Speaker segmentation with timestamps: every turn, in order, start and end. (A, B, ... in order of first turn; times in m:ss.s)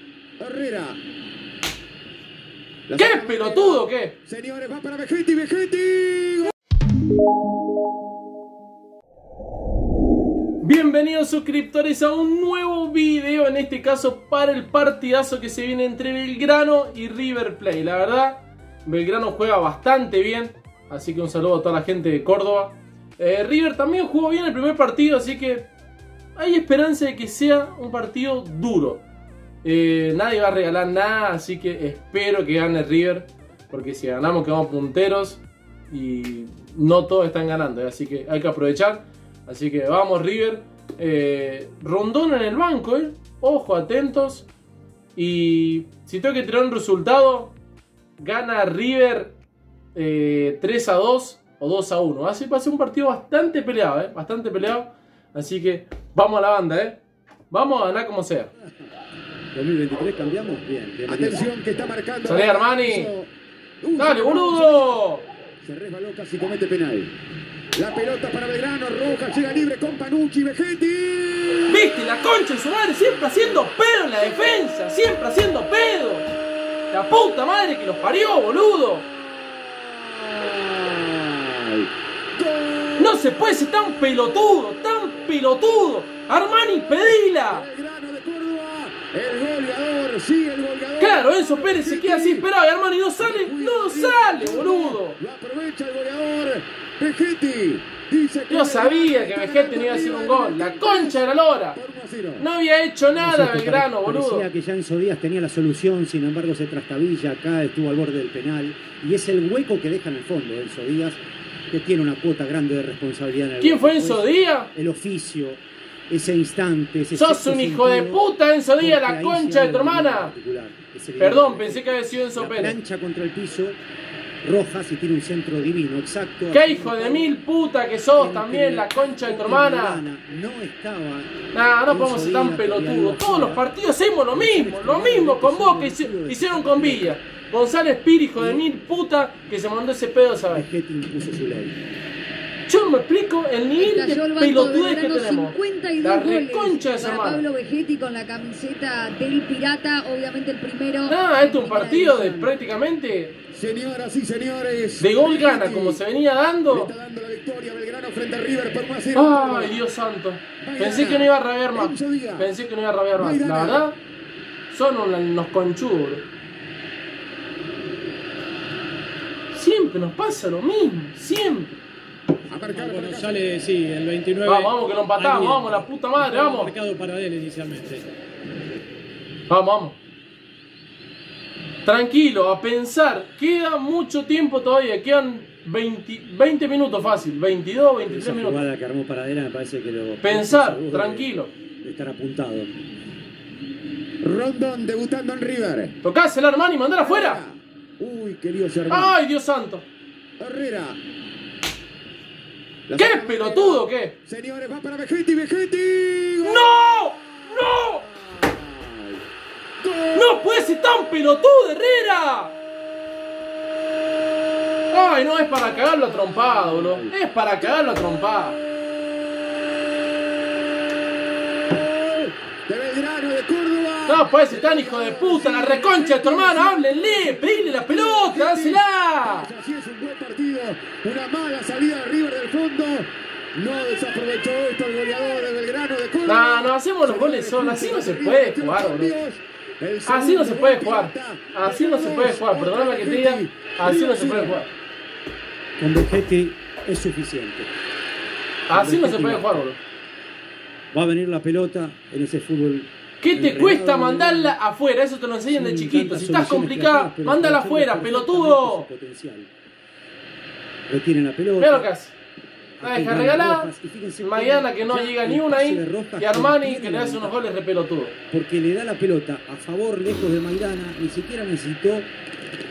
0:00.4-0:01.0 A
0:02.9-0:06.5 A
0:02.9-0:04.1 B
0:10.6-0:25.7 B
0:26.4-0:29.0 B
0:29.6-0:44.5 B
0:45.2-0:47.5 B
0:48.2-0:49.3 B
0:49.9-0:58.5 B
0:59.5-1:01.4 C
1:01.1-1:05.0 A
1:02.2-1:03.1 B
1:04.0-1:05.2 B
1:05.6-1:07.1 A
1:07.7-1:11.9 A
1:11.7-1:16.2 B
1:16.9-1:19.0 B
1:19.3-1:23.2 A
1:23.0-1:27.6 B
1:27.5-1:32.4 A
1:31.0-1:35.2 B
1:33.2-1:41.2 A
1:38.5-1:41.8 B
1:41.7-1:42.4 A
1:42.4-1:44.5 B
1:43.1-1:58.2 C
1:53.6-1:54.7 B
1:57.1-2:00.3 B
1:58.8-2:03.8 C
2:01.2-2:02.8 B
2:04.4-2:07.3 C
2:06.5-2:10.0 B
2:08.1-2:13.7 C
2:11.5-2:20.7 B
2:14.3-2:17.2 C
2:18.4-2:18.6 C
2:20.5-2:21.8 C
2:22.7-2:27.4 B
2:23.8-2:32.5 D
2:31.1-2:33.3 B
2:33.5-2:36.0 A
2:35.0-2:36.9 B
2:36.7-2:39.8 A
2:39.1-2:44.0 B
2:40.6-2:42.5 A
2:43.2-2:43.8 A
2:44.7-2:46.2 B
2:49.5-2:51.8 B
2:52.5-2:53.4 A
2:52.6-2:58.1 E
2:54.4-2:56.7 B
2:59.5-3:00.0 B
3:01.8-3:08.6 B
3:08.0-3:12.7 C
3:10.2-3:11.5 B
3:14.2-3:15.9 A
3:16.0-3:17.4 B
3:17.0-3:19.1 A
3:18.9-3:19.8 B
3:20.4-3:21.0 A
3:22.9-3:26.7 A
3:22.9-3:24.1 B
3:26.4-3:28.0 B
3:28.0-3:29.2 A
3:29.8-3:30.4 A
3:30.1-3:32.5 B
3:34.9-3:38.6 B
3:36.2-3:37.1 A
3:41.7-4:04.6 A
3:44.1-3:49.5 B
3:56.2-3:59.1 B
4:00.0-4:04.7 B
4:05.8-4:07.7 C
4:08.7-4:09.8 B
4:08.7-4:09.6 C
4:10.9-4:14.6 C
4:13.2-4:18.9 B
4:15.5-4:19.5 C
4:20.9-4:21.8 C
4:21.6-4:22.1 B
4:22.8-4:27.3 C
4:22.8-4:23.7 B
4:24.2-4:28.1 B
4:28.3-4:32.1 C